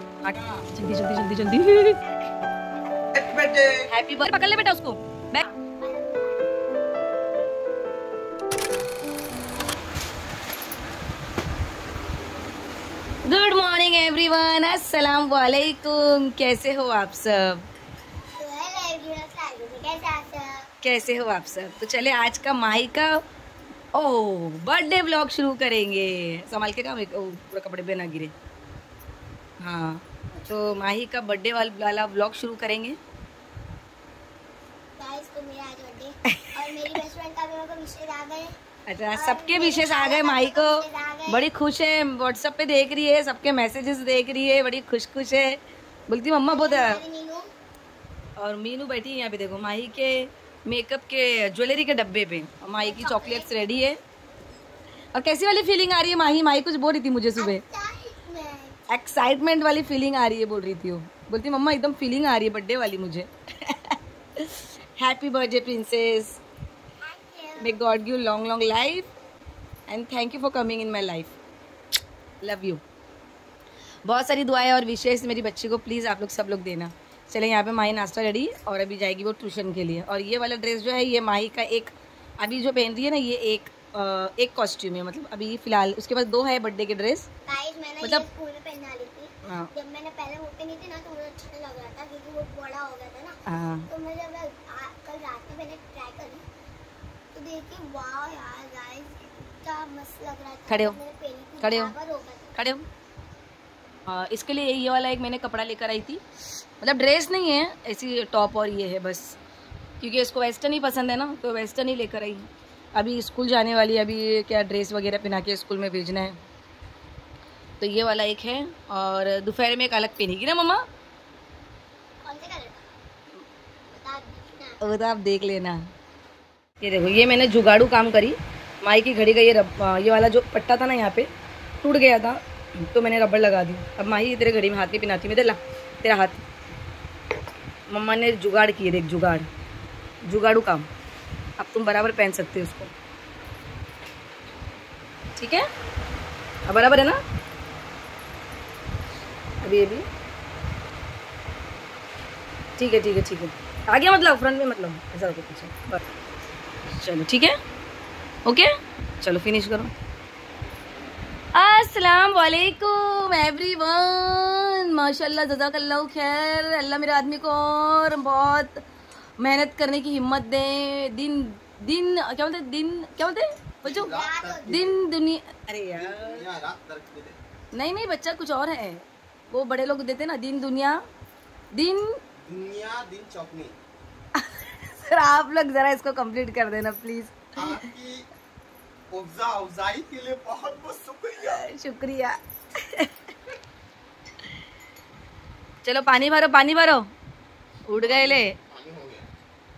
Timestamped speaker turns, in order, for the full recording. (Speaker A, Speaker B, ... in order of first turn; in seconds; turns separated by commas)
Speaker A: 0.2-2.0, Speaker B: 3.2-3.8, Speaker A: 3.9-5.5, Speaker C: 5.8-6.5, Speaker A: 13.2-17.7, Speaker C: 18.4-20.7, Speaker A: 20.8-23.2, Speaker A: 23.9-28.3, Speaker A: 29.6-33.0, Speaker C: 30.3-30.9, Speaker C: 35.0-38.5, Speaker A: 36.3-37.0, Speaker A: 38.9-47.0, Speaker C: 39.1-41.5, Speaker C: 46.4-47.5, Speaker A: 48.4-54.0, Speaker C: 52.8-53.5, Speaker A: 55.1-57.6, Speaker C: 57.4-58.8, Speaker A: 58.9-66.4, Speaker C: 67.0-67.8, Speaker A: 67.6-69.1, Speaker A: 69.9-71.3, Speaker A: 72.4-72.8, Speaker A: 74.0-87.3, Speaker C: 87.5-96.4, Speaker A: 89.5-89.7, Speaker A: 93.5-93.9, Speaker C: 97.3-102.5, Speaker A: 100.7-101.0, Speaker A: 101.6-101.9, Speaker A: 102.5-102.8, Speaker A: 104.1-106.2, Speaker A: 106.8-109.3, Speaker A: 110.0-116.4, Speaker A: 117.8-120.8, Speaker C: 122.2-122.9, Speaker C: 123.9-124.8, Speaker A: 124.8-125.9, Speaker A: 126.8-131.3, Speaker A: 131.8-136.4, Speaker A: 137.9-139.5, Speaker A: 140.2-140.9, Speaker A: 141.6-142.9, Speaker A: 145.3-145.7, Speaker A: 146.7-147.2, Speaker A: 149.6-150.0, Speaker A: 152.8-156.0, Speaker A: 157.0-157.6, Speaker A: 158.4-159.9, Speaker A: 161.5-168.8, Speaker A: 169.4-174.1, Speaker B: 173.8-174.9, Speaker C: 173.9-174.9, Speaker A: 174.7-176.4, Speaker B: 175.9-177.4, Speaker A: 177.7-181.0, Speaker A: 181.7-182.2, Speaker B: 182.4-183.8, Speaker A: 184.3-187.8, Speaker B: 187.5-188.2, Speaker B: 189.1-191.7, Speaker A: 191.4-193.1, Speaker A: 195.8-197.1, Speaker A: 197.9-198.5, Speaker B: 198.0-199.3